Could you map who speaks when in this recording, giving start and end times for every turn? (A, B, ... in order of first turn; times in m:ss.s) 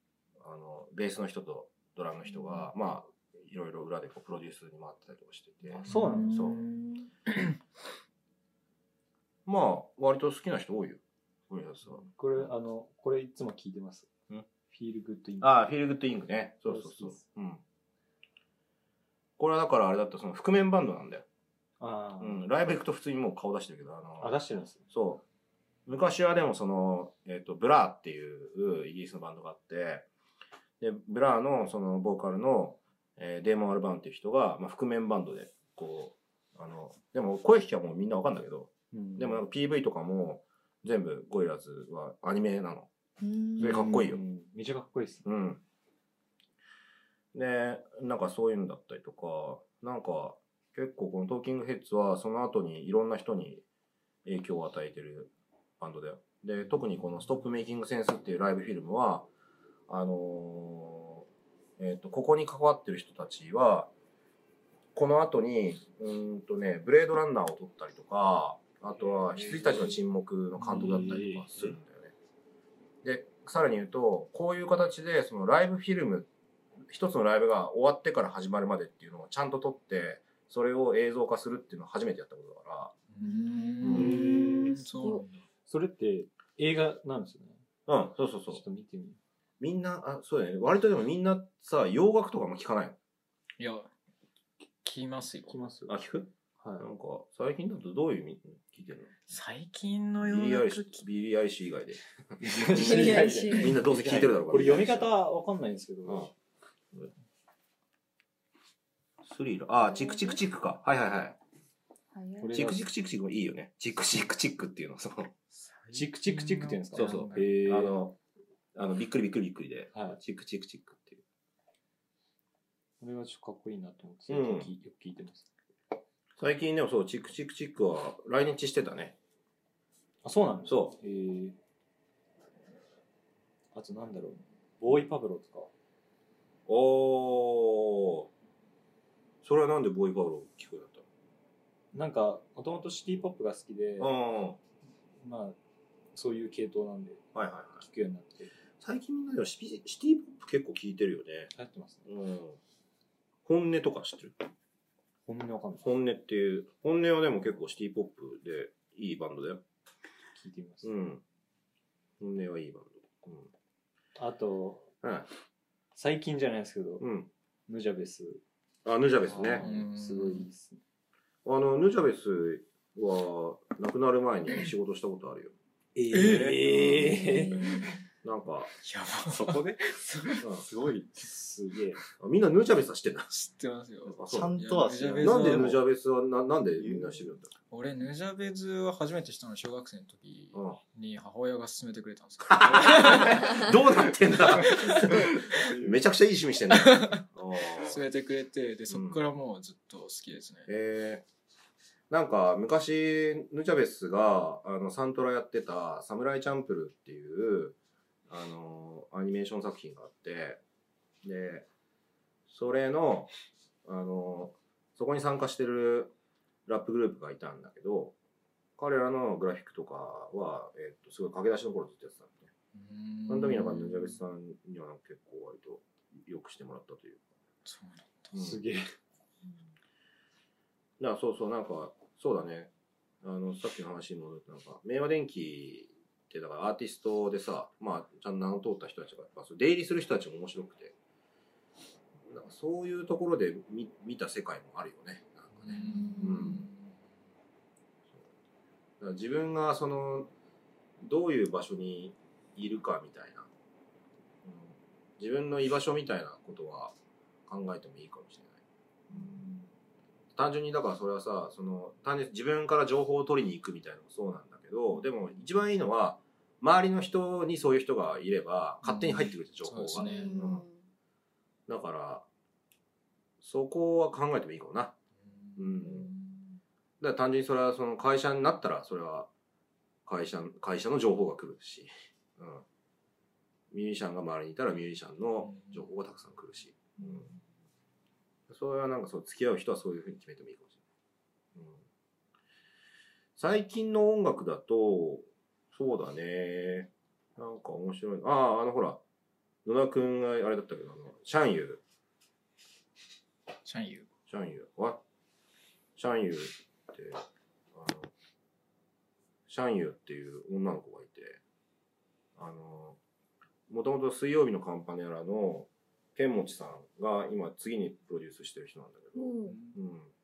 0:00.4-0:06.6 A
0:05.7-0:06.5 B
0:05.9-0:06.6 C
0:06.2-0:07.1 D
0:09.4-0:12.5 A
0:12.1-0:14.1 B
0:14.7-0:15.6 B
0:15.4-0:17.6 A
0:16.6-0:17.2 B
0:19.4-0:21.2 A
0:21.8-0:22.4 B
0:22.2-0:24.3 A
0:24.2-0:24.8 B
0:24.9-0:25.2 A
0:25.8-0:30.1 A
0:30.8-0:42.9 A
0:38.9-0:39.4 B
0:43.2-0:44.0 D
0:43.6-0:45.2 B
0:43.6-0:44.2 A
0:45.2-0:45.6 A
0:47.3-0:53.6 A
0:54.2-0:59.3 A
0:59.9-1:01.2 A
1:01.8-1:03.9 A
1:04.9-1:12.1 A
1:09.3-1:09.9 B
1:10.6-1:11.7 B
1:13.0-1:16.3 A
1:16.9-1:22.9 A
1:23.1-1:25.3 C
1:23.2-1:25.2 D
1:23.8-1:24.2 A
1:23.9-1:24.8 B
1:25.6-1:27.6 B
1:27.9-1:28.6 A
1:28.5-1:29.2 B
1:29.6-1:33.0 A
1:33.6-1:33.9 C
1:34.8-1:35.6 C
1:35.5-1:36.0 B
1:35.9-1:39.1 A
1:36.6-1:36.9 B
1:39.3-1:41.0 C
1:40.2-1:42.0 A
1:42.4-1:46.3 B
1:42.5-1:45.1 A
1:42.7-1:43.8 D
1:49.2-1:51.4 A
1:49.8-1:50.4 D
1:52.1-1:52.6 D
1:52.4-1:52.8 B
1:52.5-1:55.3 A
1:55.8-1:57.5 C
1:55.9-1:58.0 B
1:56.9-1:58.2 A
1:58.7-2:01.2 A
1:59.9-2:00.2 B
2:03.0-2:05.5 B
2:04.3-2:04.7 A
2:06.4-2:09.2 A
2:10.2-2:11.6 B
2:10.6-2:10.9 A
2:13.7-2:15.7 B
2:16.7-2:18.3 A
2:19.4-2:21.0 A
2:21.9-2:24.1 B
2:24.0-2:24.6 A
2:25.2-2:25.6 B
2:26.1-2:27.2 B
2:27.3-2:27.8 A
2:27.8-2:28.5 B
2:28.8-2:31.5 A
2:31.5-2:32.1 B
2:32.0-2:32.6 A
2:33.4-2:34.4 A
2:35.2-2:35.9 B
2:35.8-2:39.6 A
2:40.3-2:40.9 B
2:40.8-2:41.2 A
2:42.2-2:43.5 A
2:44.2-2:44.9 B
2:45.0-2:45.3 A
2:45.9-2:47.0 B
2:47.0-2:47.3 A
2:47.7-2:48.4 B
2:48.8-2:49.6 A
2:49.3-2:50.8 B
2:49.6-2:50.4 C
2:51.4-2:55.5 A
2:56.1-2:57.5 A
2:56.1-2:57.5 C
2:56.2-2:57.2 E
2:57.1-2:57.9 D
2:58.2-2:58.7 A
2:58.8-3:00.4 C
2:59.3-2:59.9 E
3:00.4-3:01.1 E
3:01.1-3:02.0 B
3:02.2-3:03.3 A
3:03.3-3:05.8 C
3:04.2-3:05.8 E
3:04.2-3:04.5 A
3:05.2-3:07.5 A
3:07.7-3:15.4 C
3:10.5-3:10.8 A
3:12.4-3:18.0 A
3:15.7-3:16.0 E
3:16.7-3:17.2 C
3:17.7-3:20.7 C
3:18.9-3:19.2 A
3:20.7-3:21.2 A
3:22.1-3:27.7 A
3:28.3-3:30.6 A
3:31.2-3:31.6 A
3:32.5-3:33.3 A
3:33.8-3:36.1 A
3:36.6-3:38.1 A
3:38.8-3:42.5 A
3:42.7-3:44.2 C
3:43.3-3:47.2 A
3:47.6-3:48.3 C
3:48.3-3:48.6 A
3:48.3-3:48.8 B
3:51.0-3:52.7 A
3:53.2-4:00.9 A
4:02.3-4:06.7 A
4:05.6-4:06.8 C
4:05.7-4:06.6 D
4:09.0-4:10.3 A
4:11.0-4:13.5 A
4:14.4-4:16.9 A
4:17.5-4:18.6 A
4:19.1-4:19.6 D
4:20.3-4:30.6 A
4:28.8-4:30.4 C
4:30.0-4:30.7 D
4:31.7-4:32.2 A
4:33.4-4:34.9 A
4:35.2-4:36.3 C
4:35.6-4:36.1 A
4:37.0-4:39.3 A
4:40.0-4:42.6 A
4:43.7-4:47.3 A
4:45.4-4:45.8 C
4:48.5-4:50.8 A
4:51.5-4:51.8 A
4:53.4-4:59.0 A
4:59.6-5:01.8 A
5:03.6-5:04.1 C
5:04.3-5:05.0 A
5:06.0-5:08.1 A
5:09.5-5:11.4 A
5:12.4-5:13.0 A
5:13.7-5:20.1 A
5:19.1-5:19.6 D
5:19.5-5:19.7 C